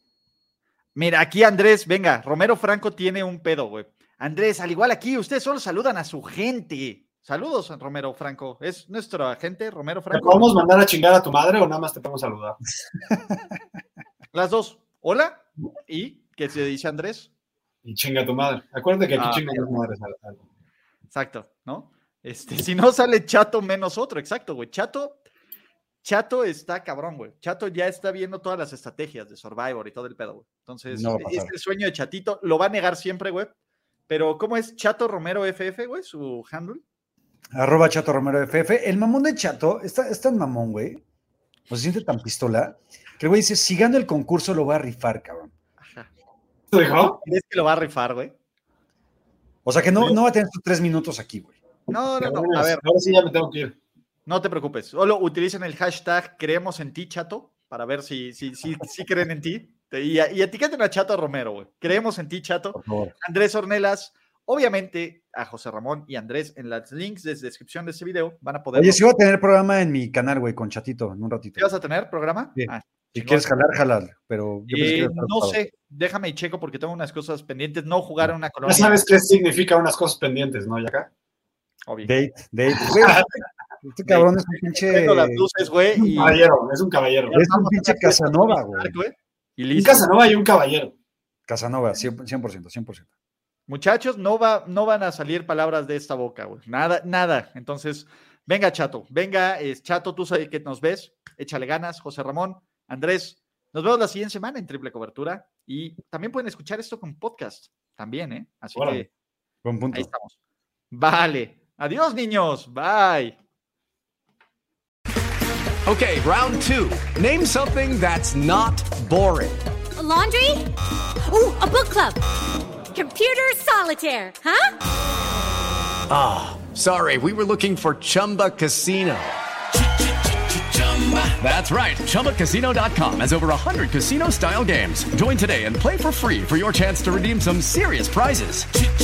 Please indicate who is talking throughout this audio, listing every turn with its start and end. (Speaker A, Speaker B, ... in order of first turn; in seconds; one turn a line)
Speaker A: 0.9-10.5
Speaker B: 10.1-12.6
Speaker A: 14.3-17.3
Speaker B: 17.8-20.4
Speaker A: 19.2-19.7
Speaker A: 21.1-25.2
Speaker A: 26.0-33.5
Speaker C: 30.9-31.5
Speaker A: 34.1-36.8
Speaker C: 37.5-41.0
Speaker C: 41.7-45.5
Speaker A: 45.8-46.1
Speaker B: 46.7-47.2
Speaker A: 47.2-48.3
Speaker C: 49.6-51.6
Speaker A: 51.9-52.8
Speaker B: 52.2-53.8
Speaker A: 54.3-69.0
Speaker C: 62.7-63.1
Speaker C: 68.8-71.7
Speaker A: 71.6-73.5
Speaker C: 72.6-75.6
Speaker A: 74.7-79.0
Speaker B: 78.7-81.1
Speaker A: 81.9-82.1
Speaker C: 82.0-83.3
Speaker B: 82.8-83.3
Speaker C: 83.8-85.5
Speaker A: 84.1-86.4
Speaker B: 86.1-87.4
Speaker A: 87.3-90.1
Speaker C: 87.3-89.0
Speaker B: 89.7-90.9
Speaker C: 91.5-93.1
Speaker A: 93.7-109.1
Speaker B: 108.8-109.1
Speaker C: 109.6-110.1
Speaker A: 109.9-110.4
Speaker A: 110.9-113.3
Speaker D: 115.9-119.6
Speaker E: 120.0-120.7
Speaker E: 121.3-122.2
Speaker E: 122.9-124.7
Speaker D: 126.1-129.4
Speaker D: 130.9-138.7